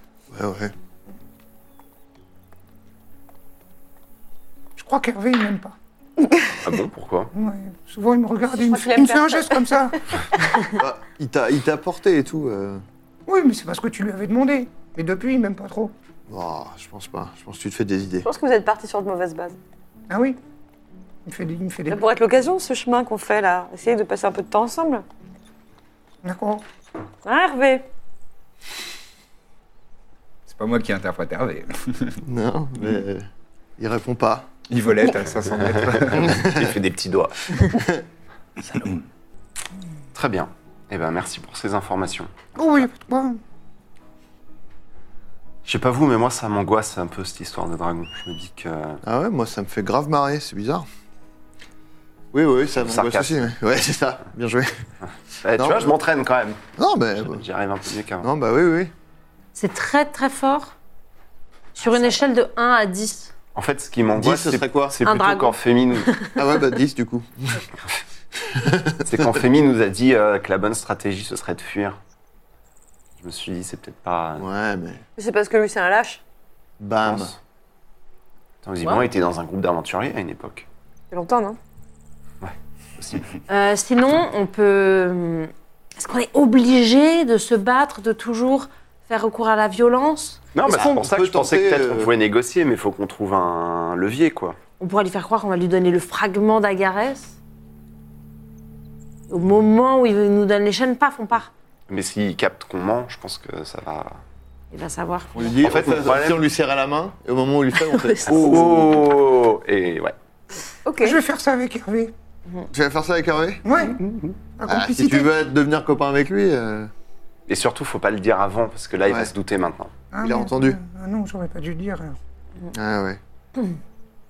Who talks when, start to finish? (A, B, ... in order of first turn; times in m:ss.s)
0:00.3-0:00.7 A
0:04.8-0:05.8 B
0:06.6-0:07.3 C
0:07.3-0:10.0 B
0:08.5-0:09.9 D
0:10.7-0:12.8 A
0:13.3-0:15.9 B
0:16.3-0:18.3 A
0:18.2-0:19.6 D
0:20.1-0:20.4 B
0:21.2-0:22.0 B
0:21.9-0:25.0 D
0:26.2-0:26.6 B
0:27.2-0:27.8 D
0:30.5-0:32.2 E
0:32.2-0:33.3 A
0:33.8-0:34.5 A
0:34.7-0:36.4 E
0:35.7-0:37.8 C
0:36.2-0:36.7 A
0:37.7-0:38.0 A
0:38.7-0:39.0 E
0:40.1-0:42.3 C
0:42.6-0:43.4 B
0:45.6-0:49.0 C
0:49.0-0:50.8 A
0:52.3-0:54.8 A
0:52.8-0:53.4 C
0:55.4-0:56.6 C
0:55.5-0:55.9 A
0:56.8-0:57.4 A
0:57.1-0:58.3 C
0:58.2-0:58.9 A
0:59.5-1:00.7 F
1:01.8-1:03.3 F
1:03.5-1:06.1 C
1:04.1-1:05.0 A
1:05.0-1:06.3 F
1:06.4-1:07.6 A
1:08.4-1:09.3 A
1:09.0-1:12.0 C
1:13.2-1:14.5 C
1:14.4-1:15.0 A
1:15.2-1:16.2 D
1:16.8-1:17.3 A
1:17.0-1:17.4 C
1:18.6-1:20.6 C
1:21.1-1:21.6 D
1:22.4-1:23.2 C
1:23.5-1:31.0 F
1:30.5-1:34.6 C
1:30.7-1:32.1 A
1:34.8-1:37.4 F
1:39.3-1:41.5 F
1:41.9-1:44.2 C
1:44.7-1:45.5 F
1:45.3-1:49.1 A
1:45.6-1:46.4 C
1:47.8-1:48.6 F
1:48.2-1:50.1 C
1:50.8-1:51.2 D
1:51.0-1:52.1 B
1:52.7-1:53.9 A
1:53.6-1:54.0 B
1:54.0-1:54.3 C
1:54.6-1:55.3 B
1:54.6-1:56.9 A
1:57.5-1:59.9 C
1:59.0-1:59.3 A
2:00.1-2:02.2 B
2:00.2-2:00.8 A
2:02.7-2:03.2 A